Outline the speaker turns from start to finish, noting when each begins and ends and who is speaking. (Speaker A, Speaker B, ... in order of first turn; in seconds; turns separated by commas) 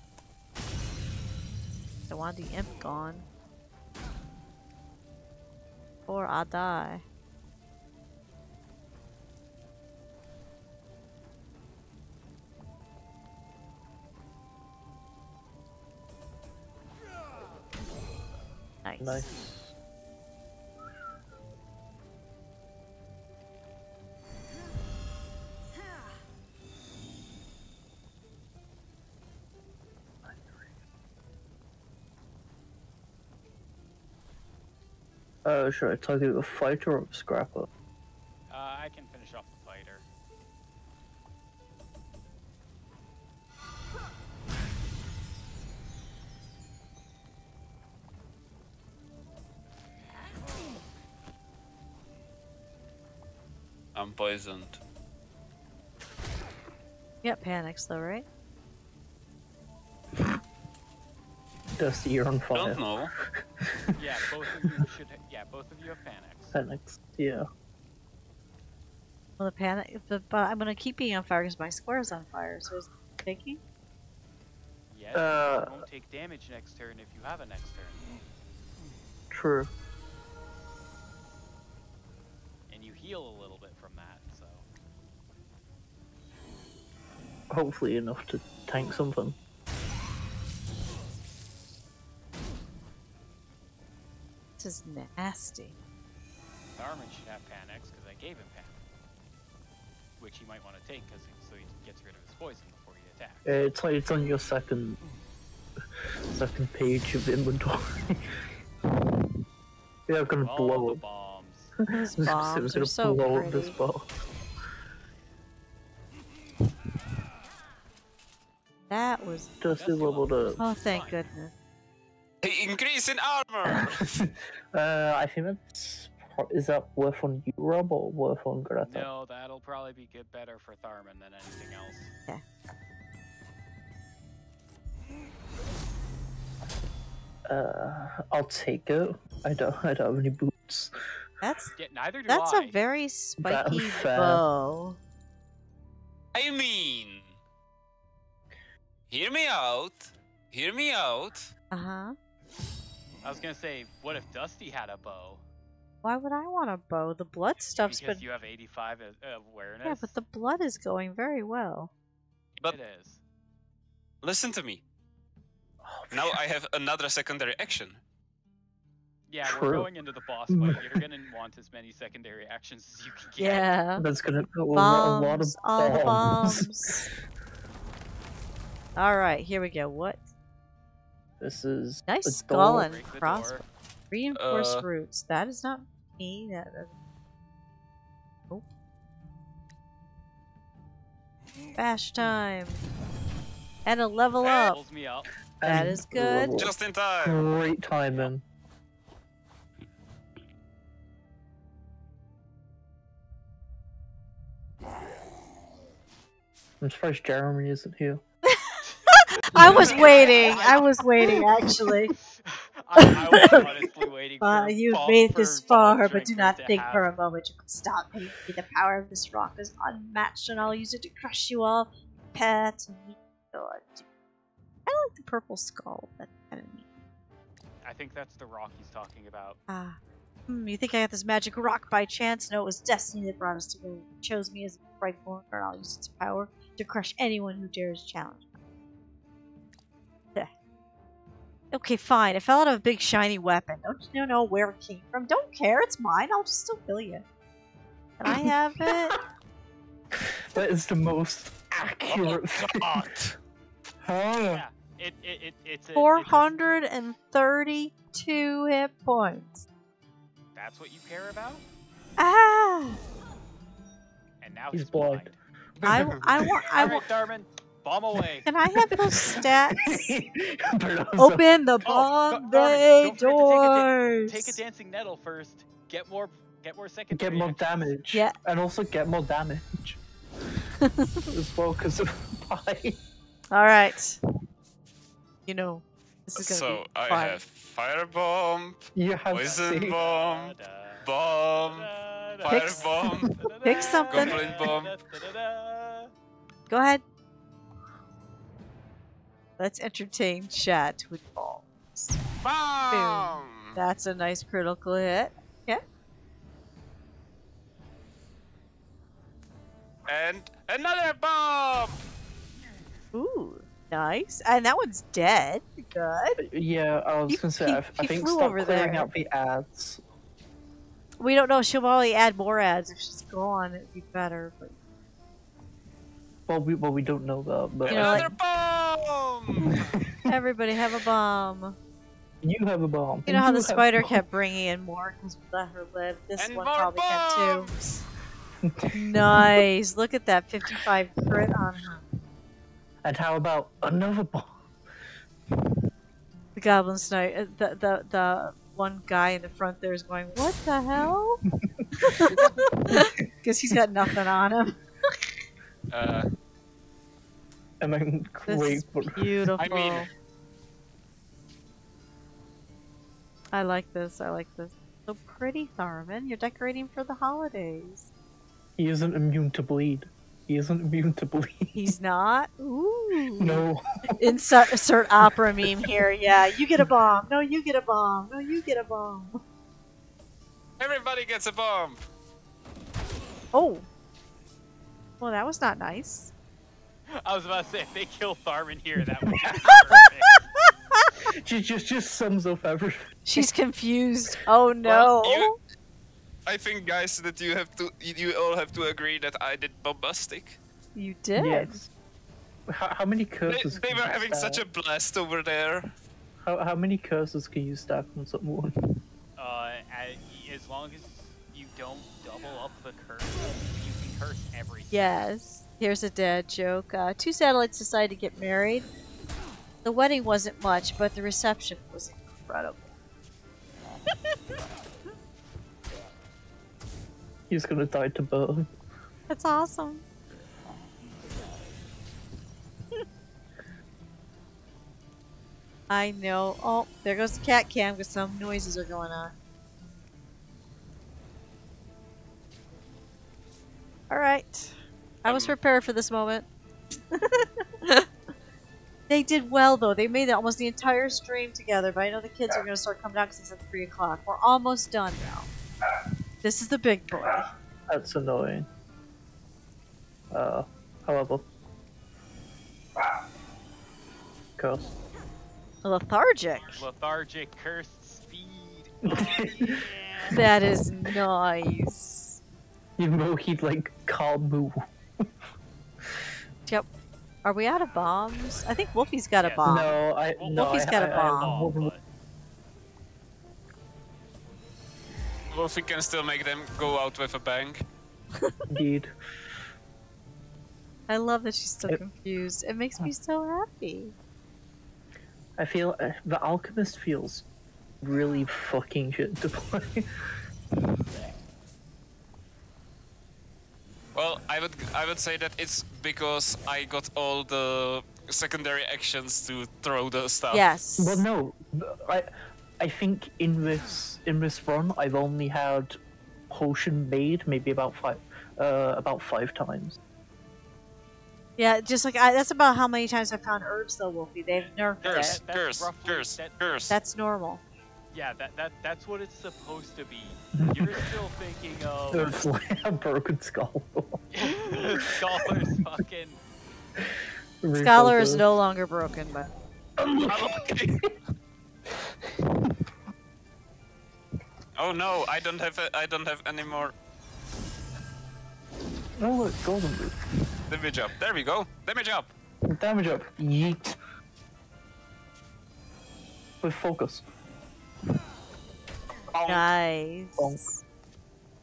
Speaker A: 2.1-3.2, Speaker A: 6.1-7.0, Speaker A: 18.8-19.3, Speaker B: 19.0-19.7, Speaker B: 30.2-30.5, Speaker B: 35.4-37.7, Speaker C: 38.5-40.0, Speaker D: 53.9-54.8, Speaker A: 57.2-58.2, Speaker B: 61.8-64.9, Speaker D: 62.5-63.1, Speaker C: 64.0-66.6, Speaker B: 66.5-67.4, Speaker A: 69.4-73.6, Speaker C: 74.9-78.2, Speaker B: 75.1-75.8, Speaker B: 79.3-79.7, Speaker C: 82.7-84.7, Speaker B: 87.5-89.3, Speaker A: 94.6-95.8, Speaker C: 96.8-98.8, Speaker C: 100.2-103.5, Speaker B: 103.4-105.0, Speaker B: 106.3-108.2, Speaker B: 110.1-111.0, Speaker C: 110.4-111.8, Speaker A: 112.0-113.8, Speaker B: 112.0-114.1, Speaker A: 118.9-119.5, Speaker B: 119.6-120.6, Speaker C: 119.7-121.2, Speaker A: 120.6-121.5, Speaker D: 122.4-124.0, Speaker B: 123.7-129.1, Speaker C: 128.8-132.1, Speaker B: 137.5-141.0, Speaker A: 141.4-141.8, Speaker C: 141.8-142.8, Speaker A: 142.3-145.0, Speaker B: 143.4-144.4, Speaker D: 146.3-147.3, Speaker D: 149.1-151.5, Speaker A: 151.7-152.1, Speaker C: 153.2-155.4, Speaker A: 156.0-158.2, Speaker C: 157.8-160.1, Speaker A: 159.8-161.9, Speaker C: 162.7-163.2, Speaker D: 164.2-164.8, Speaker B: 165.8-166.4, Speaker D: 166.1-168.0, Speaker C: 169.3-173.7, Speaker B: 169.4-169.9, Speaker B: 170.5-171.0, Speaker A: 173.4-174.0, Speaker B: 174.0-177.0, Speaker A: 174.7-177.1, Speaker A: 178.9-180.2, Speaker B: 181.4-182.9, Speaker A: 182.1-183.6, Speaker C: 182.7-183.6, Speaker A: 184.1-186.9, Speaker D: 184.3-184.8, Speaker A: 191.8-192.8, Speaker A: 193.8-194.8, Speaker C: 194.4-195.3, Speaker B: 195.6-198.4, Speaker A: 195.6-196.6, Speaker D: 196.6-197.5, Speaker B: 206.8-208.2, Speaker A: 208.4-212.1, Speaker B: 209.5-210.3, Speaker D: 209.6-210.3, Speaker C: 209.7-211.4, Speaker C: 212.2-217.1, Speaker A: 212.9-213.6, Speaker A: 214.4-224.0, Speaker A: 224.9-226.8, Speaker C: 227.8-229.6, Speaker A: 229.7-238.5, Speaker A: 241.7-247.2, Speaker A: 248.2-249.2, Speaker B: 248.2-249.2, Speaker B: 250.1-253.2, Speaker D: 252.1-253.3, Speaker B: 254.0-254.6, Speaker C: 254.5-256.5, Speaker A: 255.9-259.6, Speaker C: 260.5-261.6, Speaker A: 262.2-263.0, Speaker C: 264.4-265.4, Speaker B: 264.7-265.3, Speaker D: 265.8-266.4, Speaker B: 265.8-266.9, Speaker A: 265.9-267.0, Speaker C: 266.8-268.5, Speaker B: 268.1-271.4, Speaker A: 268.4-270.1, Speaker A: 271.2-274.6, Speaker C: 271.8-277.9, Speaker B: 277.1-280.0, Speaker A: 280.8-281.3, Speaker B: 281.3-283.0, Speaker A: 283.5-284.2, Speaker A: 285.5-287.4, Speaker D: 286.4-291.9, Speaker B: 288.9-290.0, Speaker C: 289.4-296.1, Speaker D: 292.4-293.3, Speaker A: 292.5-292.9, Speaker A: 293.6-294.4, Speaker D: 294.1-294.9, Speaker A: 296.7-297.0, Speaker A: 299.6-302.2, Speaker D: 302.4-303.8, Speaker A: 302.9-305.8, Speaker D: 310.1-312.0, Speaker A: 313.1-316.4, Speaker B: 316.4-320.0, Speaker A: 317.3-319.1, Speaker A: 321.2-324.8, Speaker B: 326.5-328.3, Speaker D: 327.8-329.8, Speaker A: 327.9-328.3, Speaker B: 329.7-330.3, Speaker A: 330.2-331.8, Speaker B: 332.4-334.2, Speaker A: 333.2-337.8, Speaker D: 336.4-337.9, Speaker B: 338.6-339.6, Speaker A: 338.9-342.0, Speaker B: 343.0-344.6, Speaker A: 346.6-351.4, Speaker B: 351.6-353.2, Speaker A: 352.0-355.1, Speaker D: 355.9-356.3, Speaker B: 357.8-359.5, Speaker A: 358.5-360.1, Speaker D: 359.6-360.1, Speaker A: 363.5-368.1, Speaker B: 368.8-371.9, Speaker A: 371.7-373.6, Speaker B: 373.4-374.4, Speaker A: 374.1-379.4, Speaker D: 380.8-382.0, Speaker A: 383.5-383.9, Speaker A: 385.2-386.3, Speaker C: 387.1-390.5, Speaker B: 389.2-389.9, Speaker A: 389.9-390.3, Speaker B: 391.4-393.5, Speaker A: 393.2-395.5, Speaker D: 394.8-395.5, Speaker D: 396.4-400.6, Speaker A: 400.9-401.8, Speaker B: 401.4-401.9, Speaker B: 402.7-404.6, Speaker D: 403.5-405.9, Speaker B: 406.4-408.7, Speaker C: 409.4-415.2, Speaker A: 414.9-418.9, Speaker A: 419.8-422.9, Speaker B: 427.5-428.7, Speaker A: 429.3-430.0, Speaker A: 435.9-439.3, Speaker A: 444.1-446.5, Speaker D: 445.2-445.6, Speaker A: 447.1-448.1, Speaker A: 449.1-455.5, Speaker A: 456.4-457.5, Speaker B: 457.9-458.7, Speaker B: 460.3-461.4, Speaker B: 464.6-464.9, Speaker A: 465.8-466.8, Speaker C: 466.7-470.4, Speaker B: 469.0-471.1, Speaker A: 470.3-472.4, Speaker B: 473.0-475.3, Speaker A: 477.4-480.0, Speaker C: 479.4-482.0, Speaker B: 479.6-481.9, Speaker A: 480.5-481.6, Speaker D: 485.5-487.8, Speaker B: 488.7-489.1, Speaker A: 491.1-494.1, Speaker B: 495.6-497.4, Speaker B: 498.0-500.4, Speaker D: 504.1-510.6, Speaker A: 510.5-511.2, Speaker B: 511.0-516.0, Speaker B: 516.5-520.0, Speaker A: 521.6-525.4, Speaker C: 524.5-526.8, Speaker D: 525.0-527.0, Speaker A: 526.9-527.6, Speaker C: 528.1-532.4, Speaker B: 530.6-531.0, Speaker B: 532.1-535.5, Speaker C: 534.3-536.4, Speaker B: 537.0-538.4, Speaker A: 537.7-539.5, Speaker B: 540.0-541.1, Speaker D: 540.3-540.7, Speaker B: 541.9-542.8, Speaker D: 544.8-546.9, Speaker B: 549.2-550.1, Speaker D: 550.7-552.3, Speaker B: 552.7-554.0, Speaker B: 556.6-557.2, Speaker D: 559.3-559.7, Speaker A: 559.5-560.8, Speaker B: 560.4-560.7